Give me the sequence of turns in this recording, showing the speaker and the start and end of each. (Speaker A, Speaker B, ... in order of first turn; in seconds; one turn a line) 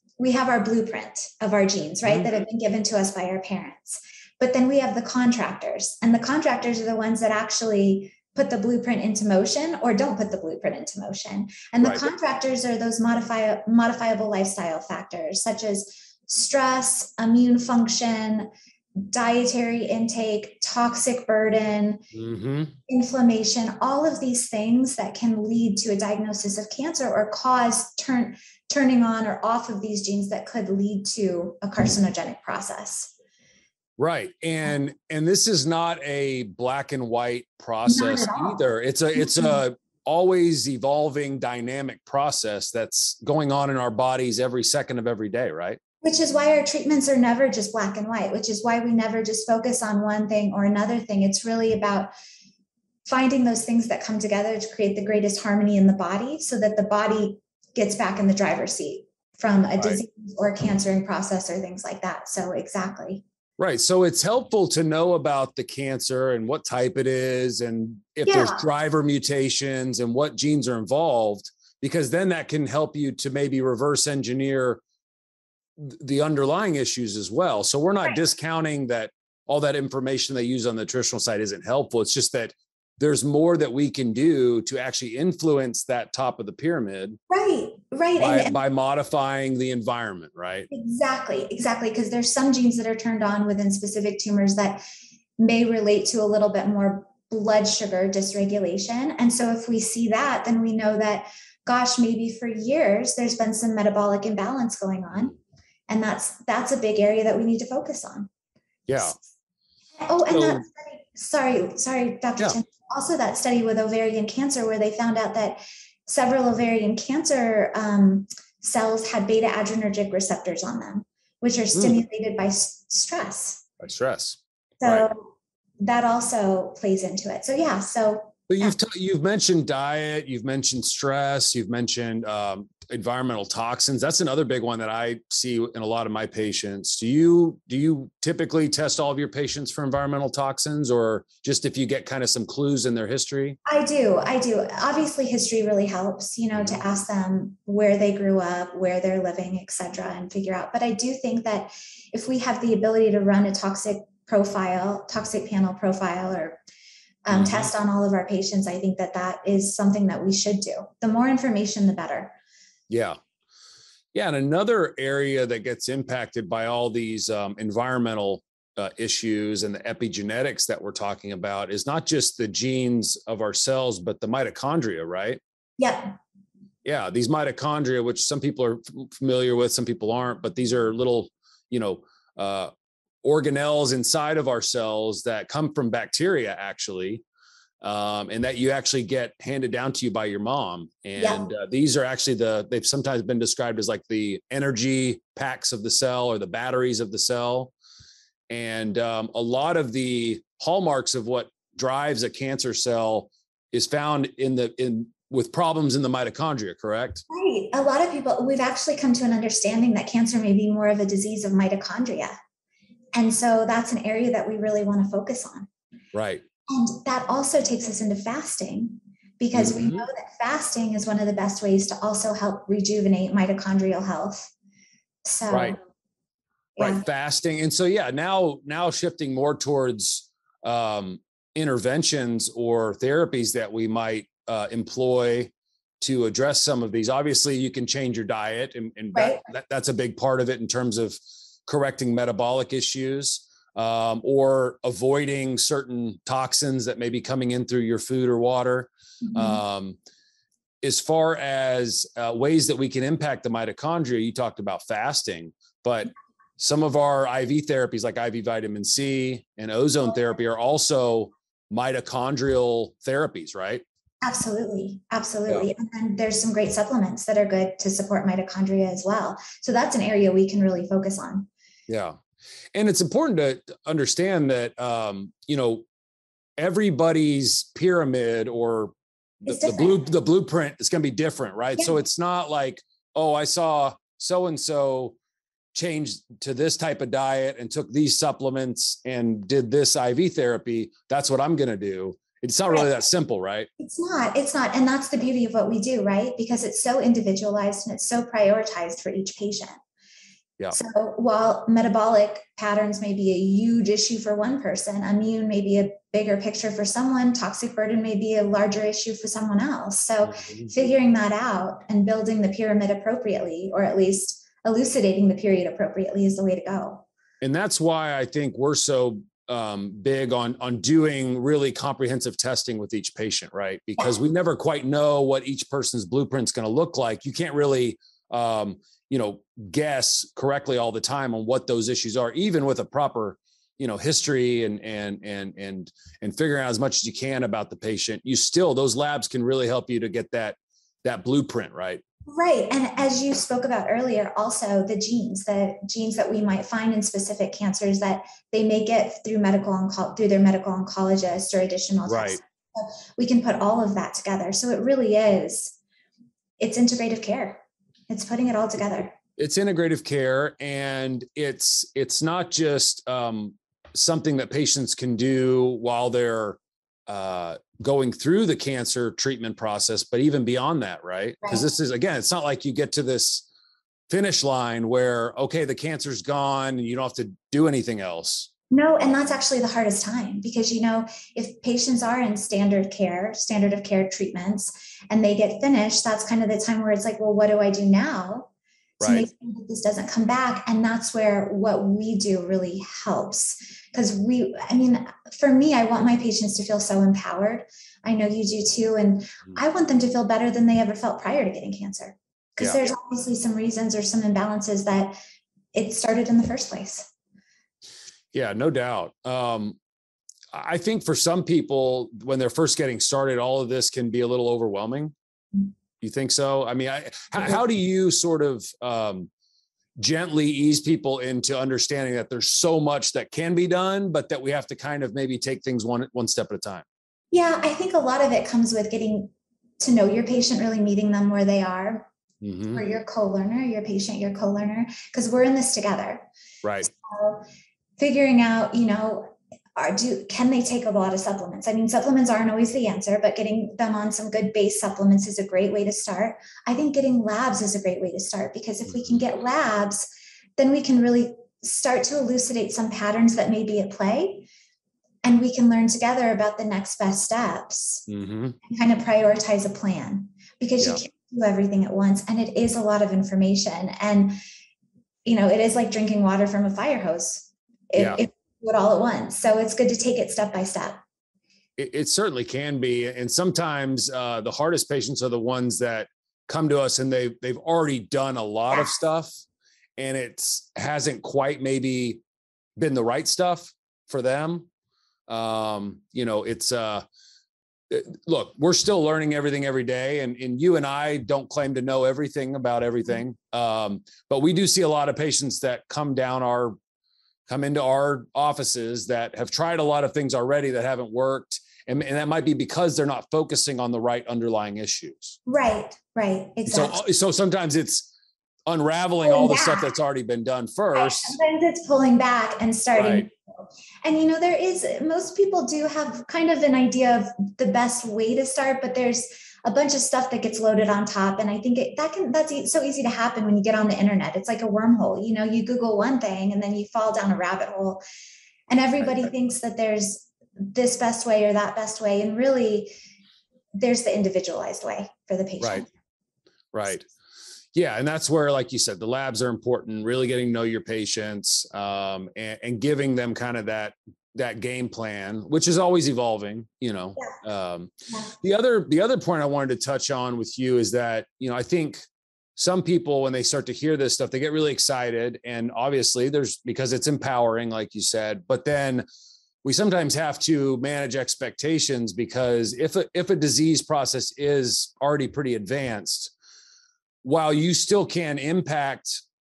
Speaker A: 0.2-22.0
Speaker B: 2.0-2.4
Speaker B: 11.8-12.1
Speaker B: 22.1-22.8
Speaker A: 22.9-33.1
Speaker B: 34.0-45.8
Speaker A: 37.9-38.6
Speaker A: 39.1-39.6
Speaker A: 46.0-52.1
Speaker A: 53.0-63.2
Speaker B: 63.6-74.8
Speaker A: 68.2-68.7
Speaker B: 75.8-87.2
Speaker A: 87.3-88.6
Speaker B: 88.2-90.7
Speaker A: 90.7-94.8
Speaker A: 95.4-105.3
Speaker A: 105.9-108.3
Speaker B: 108.9-109.2
Speaker A: 110.0-123.6
Speaker B: 110.3-110.7
Speaker B: 121.7-122.0
Speaker B: 123.8-125.1
Speaker A: 124.8-128.8
Speaker B: 128.5-143.6
Speaker A: 143.7-156.6
Speaker B: 146.6-146.8
Speaker A: 157.2-162.3
Speaker B: 157.3-157.7
Speaker B: 162.9-163.2
Speaker B: 164.1-175.4
Speaker A: 175.8-176.2
Speaker B: 176.8-182.7
Speaker B: 183.2-187.2
Speaker B: 187.8-197.7
Speaker A: 191.2-191.5
Speaker B: 198.5-207.2
Speaker A: 207.3-212.3
Speaker A: 213.1-215.7
Speaker B: 216.1-216.4
Speaker A: 216.7-224.5
Speaker B: 219.5-220.1
Speaker A: 225.2-225.8
Speaker B: 225.5-225.8
Speaker A: 226.8-227.1
Speaker B: 226.8-250.0
Speaker A: 239.1-239.5
Speaker A: 249.2-249.6
Speaker B: 250.8-263.8
Speaker A: 264.2-271.5
Speaker B: 271.9-272.2
Speaker B: 272.7-275.9
Speaker B: 276.6-278.9
Speaker B: 279.4-285.2
Speaker A: 279.5-280.0
Speaker B: 285.7-293.7
Speaker A: 293.8-299.8
Speaker A: 300.7-317.1
Speaker B: 310.4-310.7
Speaker B: 317.4-342.0
Speaker A: 342.3-355.8
Speaker B: 352.1-352.4
Speaker A: 356.6-359.1
Speaker B: 359.4-373.4
Speaker B: 374.1-378.5
Speaker A: 378.7-388.5
Speaker B: 389.0-389.3
Speaker A: 389.0-405.2
Speaker B: 402.6-402.9
Speaker A: 405.7-407.1
Speaker B: 408.3-409.8
Speaker B: 410.5-415.1
Speaker B: 416.0-419.3
Speaker B: 420.0-426.8
Speaker A: 427.3-432.1
Speaker B: 432.4-432.9
Speaker A: 432.7-436.3
Speaker B: 436.6-436.9
Speaker A: 436.8-437.4
Speaker A: 438.0-454.5
Speaker B: 448.9-449.2
Speaker A: 455.2-458.1
Speaker B: 458.1-458.6
Speaker A: 458.6-464.4
Speaker A: 465.2-471.0
Speaker B: 467.9-468.2
Speaker B: 471.8-479.4
Speaker B: 480.0-482.2
Speaker B: 482.8-484.7
Speaker B: 485.3-487.1
Speaker B: 487.9-496.8
Speaker B: 497.5-505.4
Speaker A: 505.5-507.0
Speaker B: 506.7-508.1
Speaker B: 508.7-511.4
Speaker A: 509.2-509.9
Speaker A: 510.9-528.0
Speaker B: 512.9-513.3
Speaker A: 528.7-532.9
Speaker A: 533.8-535.9
Speaker B: 536.7-537.1
Speaker B: 537.7-552.0
Speaker B: 552.6-559.0
Speaker B: 559.6-566.3
Speaker B: 567.2-569.2